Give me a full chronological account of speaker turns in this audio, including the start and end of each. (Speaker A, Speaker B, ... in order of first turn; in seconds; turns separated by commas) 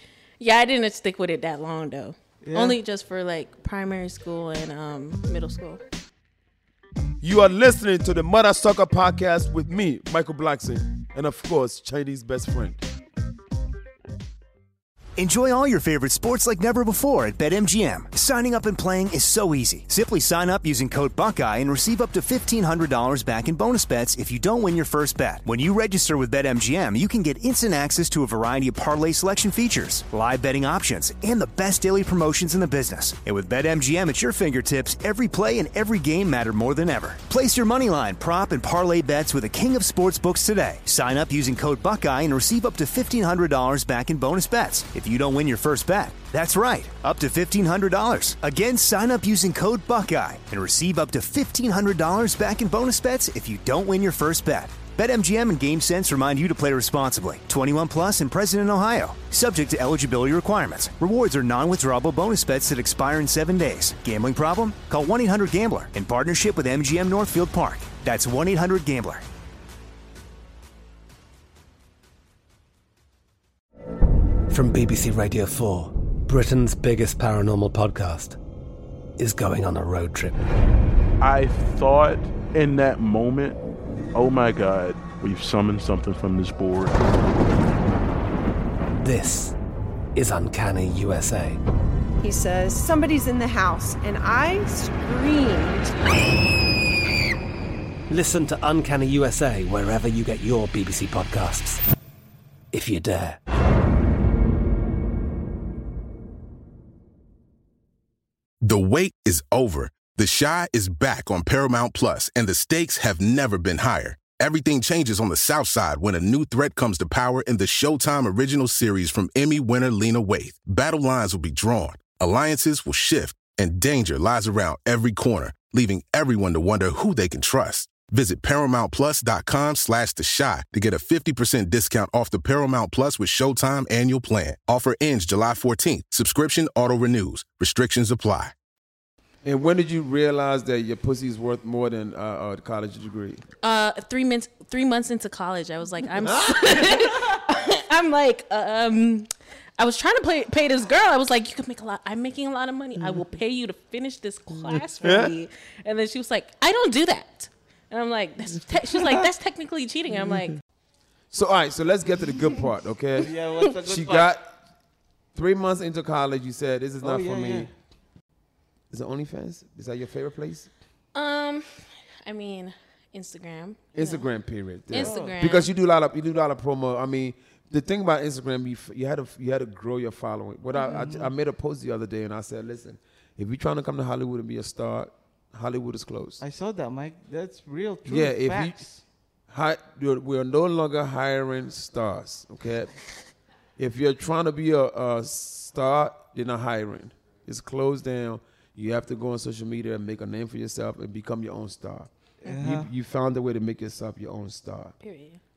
Speaker A: 0.4-5.8, Speaker B: 2.4-2.8, Speaker C: 7.2-12.8, Speaker D: 15.2-69.2, Speaker E: 74.5-78.4, Speaker E: 79.2-80.4, Speaker F: 81.2-83.6, Speaker F: 84.1-87.0, Speaker E: 89.0-89.5, Speaker E: 90.2-91.6, Speaker G: 92.2-95.9, Speaker E: 98.1-101.8, Speaker E: 102.7-103.4, Speaker H: 108.6-138.5, Speaker C: 139.4-143.4, Speaker A: 143.6-160.6, Speaker C: 146.2-147.0, Speaker C: 154.7-155.3, Speaker C: 161.3-163.3, Speaker B: 163.2-164.4, Speaker C: 163.8-164.5, Speaker C: 165.3-167.7, Speaker B: 167.0-167.7, Speaker C: 168.9-170.7, Speaker A: 171.1-174.3, Speaker C: 173.9-186.4, Speaker A: 174.9-175.7, Speaker B: 174.9-175.4, Speaker B: 180.9-181.3, Speaker B: 186.4-189.0, Speaker C: 188.1-188.8, Speaker C: 189.5-192.9, Speaker C: 193.8-204.9, Speaker B: 202.4-202.9, Speaker A: 205.0-205.4